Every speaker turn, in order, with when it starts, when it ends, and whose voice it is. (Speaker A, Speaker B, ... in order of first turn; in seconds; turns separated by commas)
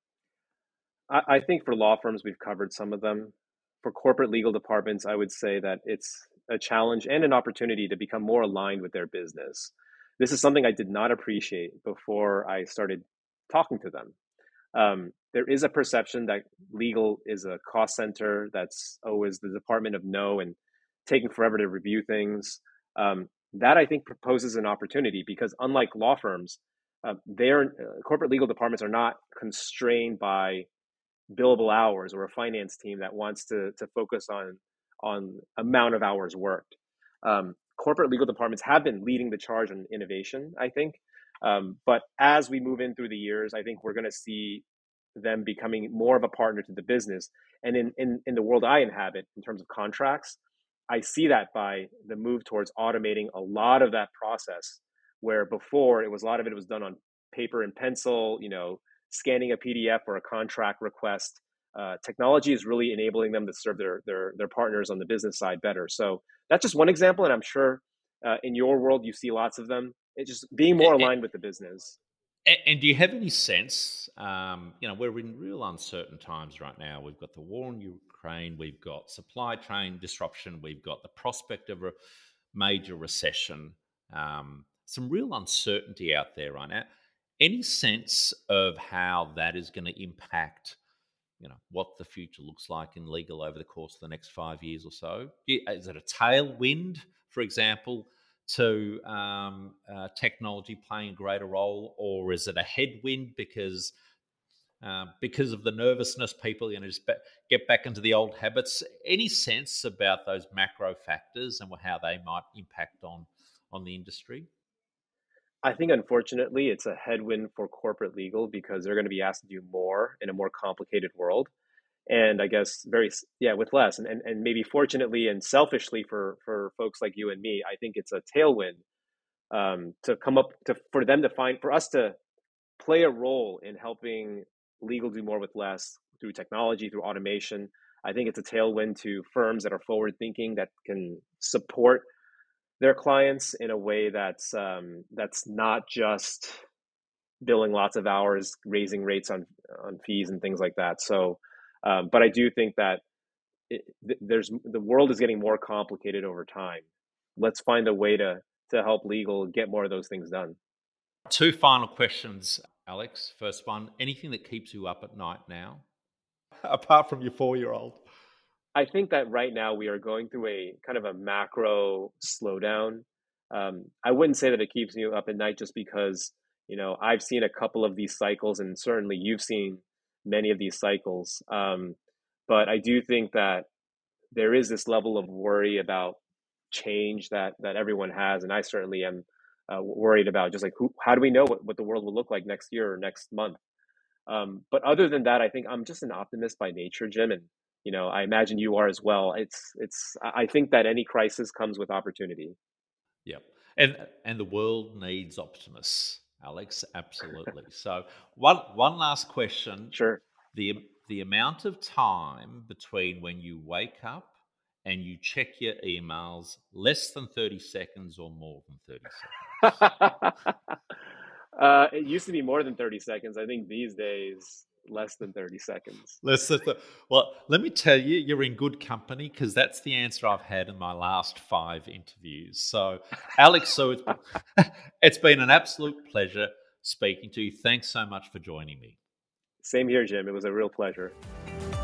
Speaker A: 1.1-14.1, Speaker A: 14.7-30.7, Speaker A: 31.3-44.6, Speaker A: 45.1-50.4, Speaker A: 50.9-72.0, Speaker B: 70.8-71.1, Speaker B: 72.5-81.9, Speaker B: 82.5-86.9, Speaker B: 87.4-90.8, Speaker B: 91.4-103.9, Speaker B: 104.8-114.5, Speaker A: 115.6-121.5, Speaker A: 122.1-128.8, Speaker A: 129.5-132.2, Speaker A: 132.8-142.1, Speaker A: 142.8-146.6, Speaker A: 147.4-153.0, Speaker A: 153.7-156.8, Speaker A: 157.4-160.6, Speaker B: 161.3-165.8, Speaker B: 166.6-168.0, Speaker A: 168.7-182.0, Speaker A: 182.5-183.7, Speaker A: 184.3-186.2, Speaker A: 186.7-193.6, Speaker A: 194.3-202.6, Speaker B: 203.2-209.9, Speaker A: 209.9-210.2, Speaker B: 210.5-214.3, Speaker B: 214.8-219.7, Speaker A: 219.6-220.5, Speaker A: 221.6-226.2, Speaker B: 226.2-239.0, Speaker A: 239.6-241.1